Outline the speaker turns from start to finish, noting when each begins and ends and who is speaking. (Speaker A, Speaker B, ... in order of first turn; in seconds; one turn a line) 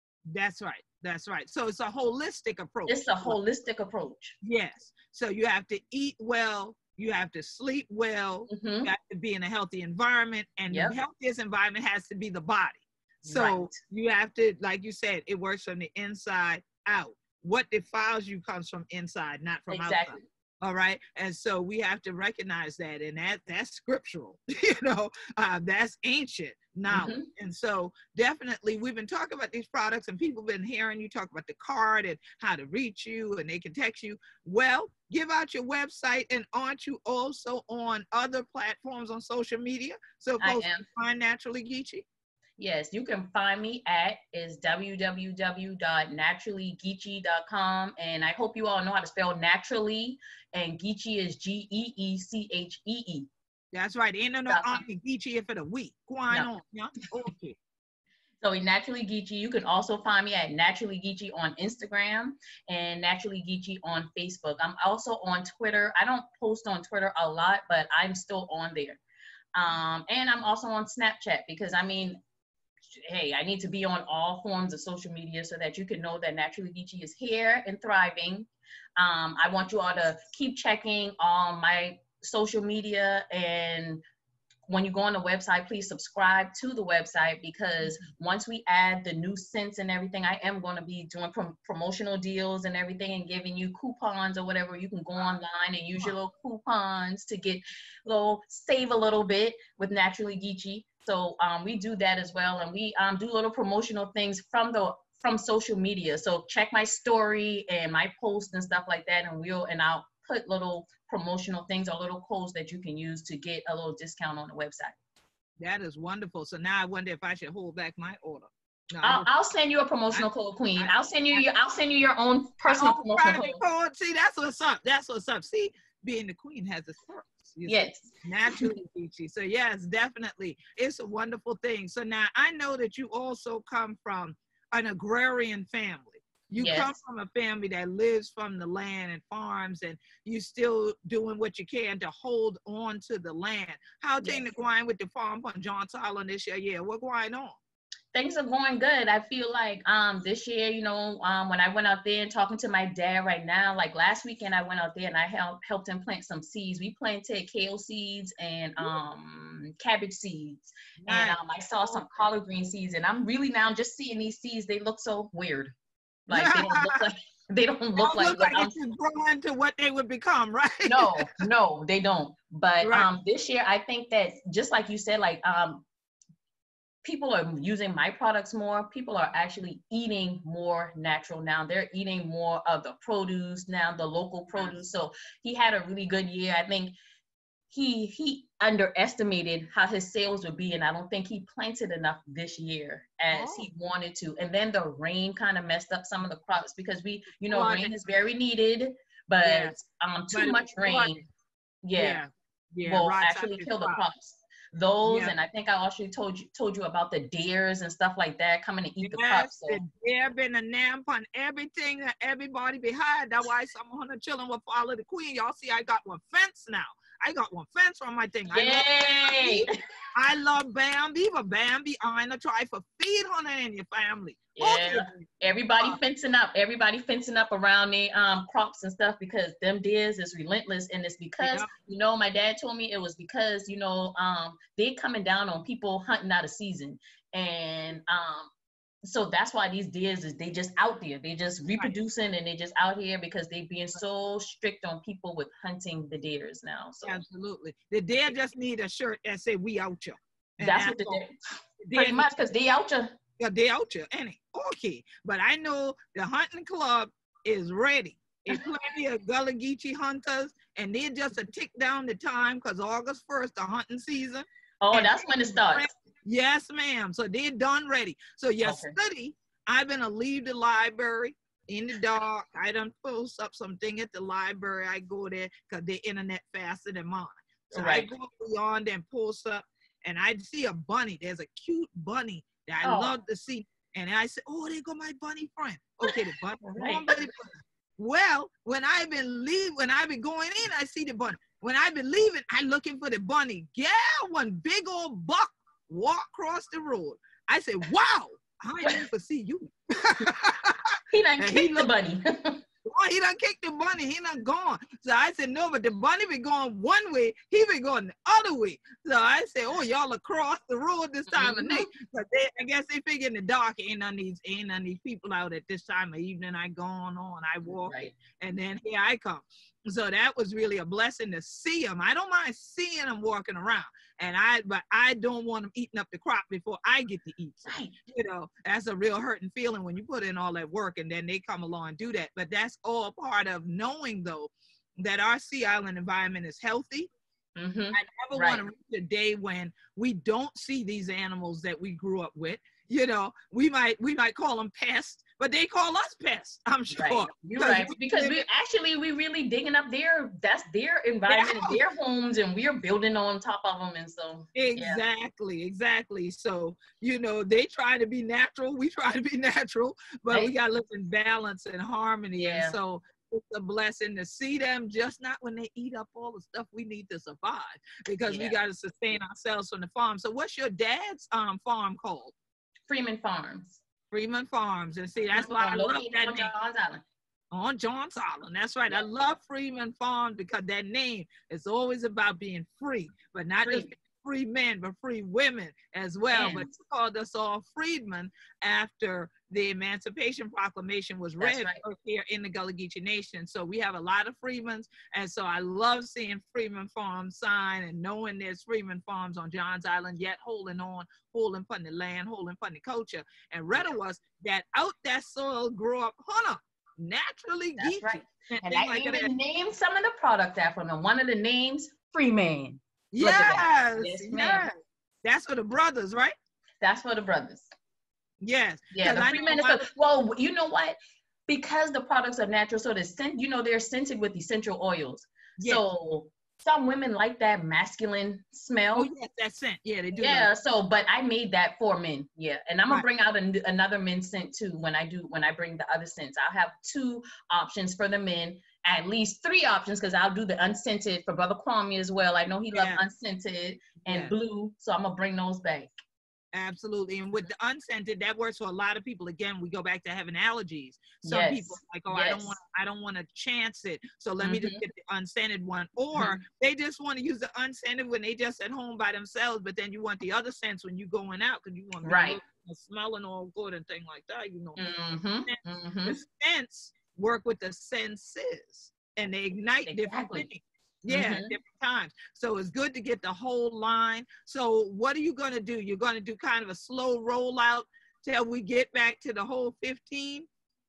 Speaker A: 0.3-3.4
Speaker B: 2.9-4.4
Speaker A: 4.4-42.0
Speaker B: 8.5-8.9
Speaker B: 10.7-11.0
Speaker B: 13.2-13.8
Speaker B: 19.7-20.2
Speaker B: 26.9-27.3
Speaker B: 40.4-40.9
Speaker B: 42.6-53.3
Speaker A: 53.7-57.6
Speaker B: 54.5-54.8
Speaker B: 58.4-69.0
Speaker B: 69.5-72.2
Speaker B: 72.9-84.0
Speaker B: 84.7-115.0
Speaker A: 115.6-119.3
Speaker B: 119.0-123.6
Speaker A: 120.1-121.5
Speaker A: 122.7-147.6
Speaker B: 127.7-128.7
Speaker B: 136.6-137.0
Speaker B: 144.2-144.5
Speaker B: 148.1-165.7
Speaker A: 161.0-162.2
Speaker B: 166.3-168.8
Speaker A: 166.3-167.1
Speaker A: 168.0-171.3
Speaker B: 170.8-175.9
Speaker A: 172.8-173.1
Speaker B: 177.0-186.9
Speaker B: 187.7-201.2
Speaker A: 193.3-193.7
Speaker A: 197.5-197.9
Speaker A: 199.4-199.8
Speaker A: 200.3-201.2
Speaker B: 201.8-202.2
Speaker A: 201.9-204.0
Speaker B: 202.8-209.8
Speaker A: 205.1-205.3
Speaker A: 209.0-225.2
Speaker B: 218.5-219.7
Speaker B: 224.6-238.5
Speaker A: 231.4-231.7
Speaker B: 239.1-247.2
Speaker A: 247.0-251.2
Speaker B: 250.6-251.4
Speaker A: 251.8-252.3
Speaker B: 251.9-253.1
Speaker A: 253.4-301.9
Speaker B: 264.8-265.9
Speaker B: 268.6-268.9
Speaker B: 277.7-278.1
Speaker B: 282.8-283.1
Speaker B: 286.1-287.1
Speaker B: 301.1-302.6
Speaker A: 302.9-337.1
Speaker B: 311.3-311.9
Speaker B: 317.7-318.2
Speaker B: 327.7-328.0
Speaker B: 337.6-338.6
Speaker A: 337.9-348.4
Speaker B: 346.9-355.0
Speaker A: 351.3-351.8
Speaker A: 354.6-372.3
Speaker B: 362.4-362.8
Speaker B: 368.3-368.6
Speaker B: 372.9-373.8
Speaker A: 374.1-376.5
Speaker B: 375.4-377.0
Speaker A: 377.5-409.3
Speaker B: 383.6-383.9
Speaker B: 386.3-386.7
Speaker B: 391.4-391.8
Speaker B: 407.8-414.7
Speaker A: 413.1-416.4
Speaker B: 416.8-417.7
Speaker A: 418.4-419.9
Speaker B: 418.9-421.0
Speaker B: 421.5-429.1
Speaker A: 425.6-425.8
Speaker A: 429.0-430.5
Speaker B: 430.1-445.9
Speaker A: 442.7-443.0
Speaker A: 444.1-444.3
Speaker A: 446.5-464.8
Speaker B: 451.2-452.6
Speaker B: 454.4-454.9
Speaker B: 456.1-456.4
Speaker B: 462.0-462.4
Speaker B: 464.8-466.2
Speaker A: 465.5-480.5
Speaker B: 469.9-470.5
Speaker B: 471.1-471.6